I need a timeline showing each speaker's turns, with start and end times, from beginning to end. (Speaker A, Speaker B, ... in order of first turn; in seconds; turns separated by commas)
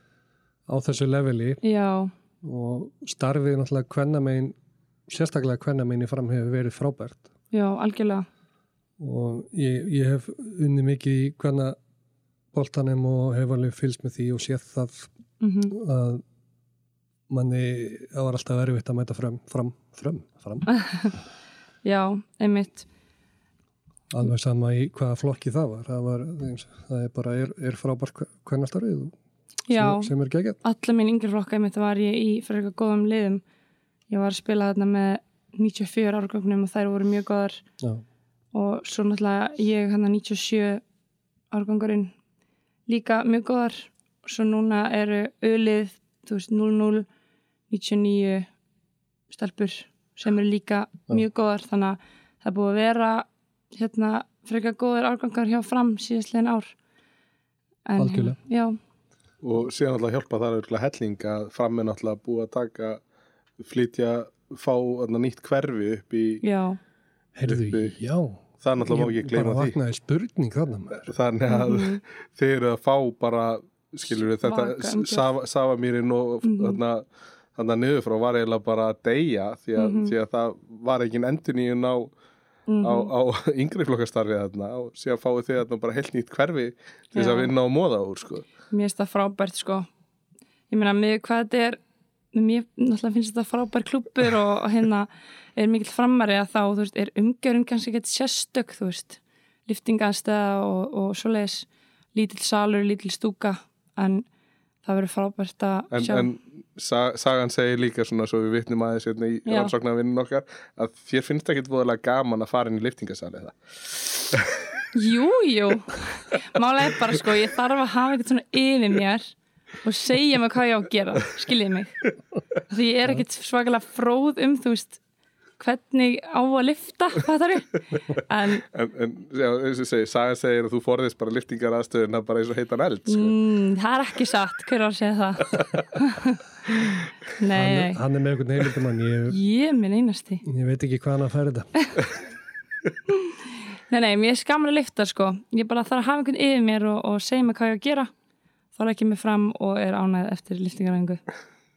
Speaker A: 0.7-1.6, Speaker B: 1.6-2.1, Speaker A: 2.4-4.5, Speaker A: 5.1-7.3, Speaker B: 7.5-8.3, Speaker A: 9.0-11.8, Speaker A: 12.5-15.1, Speaker B: 15.4-15.7, Speaker A: 15.7-16.2, Speaker A: 17.3-20.7, Speaker B: 20.7-21.1, Speaker B: 21.8-22.9, Speaker A: 24.1-29.1, Speaker B: 29.7-30.1, Speaker A: 29.7-30.6, Speaker B: 30.6-33.4, Speaker B: 34.1-37.6, Speaker B: 38.5-40.8, Speaker B: 41.5-42.1, Speaker B: 42.9-47.1, Speaker B: 47.7-48.5, Speaker B: 49.3-56.7, Speaker B: 57.9-58.8, Speaker A: 58.0-58.4, Speaker C: 59.4-63.0, Speaker C: 63.6-66.4, Speaker B: 66.4-66.8, Speaker A: 67.3-71.1, Speaker C: 67.5-67.9, Speaker C: 68.6-69.8, Speaker C: 71.1-82.1, Speaker B: 71.5-72.0, Speaker B: 74.4-75.3, Speaker B: 76.4-76.8, Speaker B: 79.8-80.1, Speaker B: 82.7-83.1, Speaker C: 82.8-88.5, Speaker B: 87.1-87.5, Speaker B: 88.7-89.9, Speaker B: 90.7-91.8, Speaker B: 92.3-104.2, Speaker B: 104.8-106.3, Speaker C: 105.9-113.6, Speaker B: 109.5-109.7, Speaker B: 114.9-122.0, Speaker B: 122.7-125.0, Speaker B: 125.6-128.6, Speaker C: 128.7-133.3, Speaker B: 133.1-138.0, Speaker A: 137.5-139.4, Speaker B: 139.3-140.4, Speaker A: 140.4-141.7, Speaker B: 143.1-143.3, Speaker B: 143.9-148.1, Speaker B: 148.7-151.2